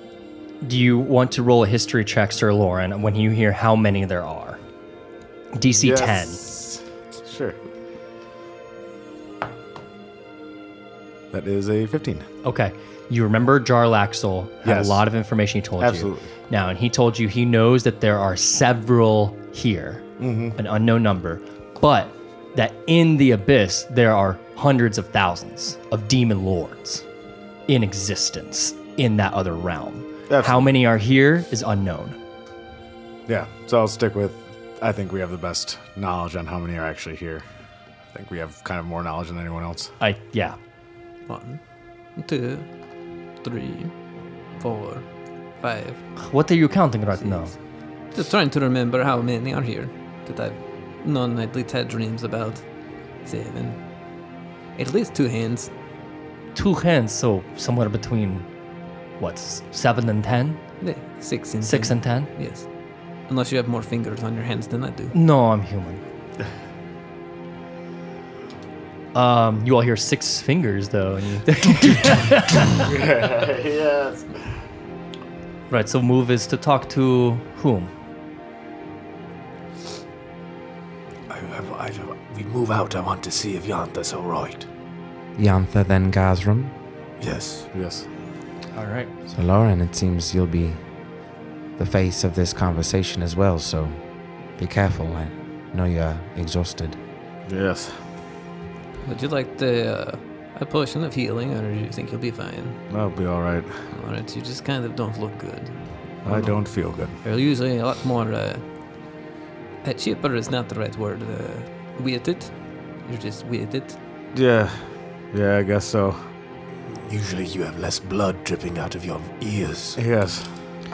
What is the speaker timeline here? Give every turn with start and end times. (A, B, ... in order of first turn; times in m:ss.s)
0:00.6-0:04.6 A
0:05.6-0:06.4 A
0:05.8-0:07.6 B
0:11.3-0:12.2 B
0:12.4-0:27.0 A
0:14.6-0:15.0 B
0:15.8-0:16.3 B
0:20.2-0:20.6 B
0:27.7-0:32.2 A
0:30.3-0:30.7 B
0:33.3-0:37.4 B
0:38.1-0:39.9 B
0:40.0-0:40.6 A
0:41.3-0:41.6 C
0:42.1-0:42.7 C
0:43.4-0:43.9 C
0:44.6-0:45.0 C
0:45.6-0:46.0 C
0:46.2-0:47.5 A
0:48.1-0:52.6 C
0:53.2-0:53.8 C
0:54.8-0:55.7 C
0:56.5-0:58.4 A
0:59.2-1:00.6 A
1:00.8-1:02.7 C
1:01.6-1:02.3 A
1:03.3-1:05.1 C
1:05.1-1:06.0 A
1:09.1-1:12.8 A
1:12.8-1:14.3 B
1:15.7-1:17.9 A
1:21.3-1:24.7 D
1:25.4-1:26.7 E
1:27.2-1:27.7 D
1:27.7-1:28.1 B
1:28.7-1:29.1 A
1:29.3-1:30.8 E
1:31.8-1:34.0 E
1:34.6-1:37.0 E
1:37.5-1:38.0 B
1:39.0-1:42.8 C
1:42.9-1:43.7 B
1:43.9-1:46.6 C
1:46.2-1:47.1 B
1:47.2-1:48.6 C
1:49.8-1:54.0 C
1:54.3-1:56.2 B
1:56.8-2:00.0 D
2:00.0-2:00.5 B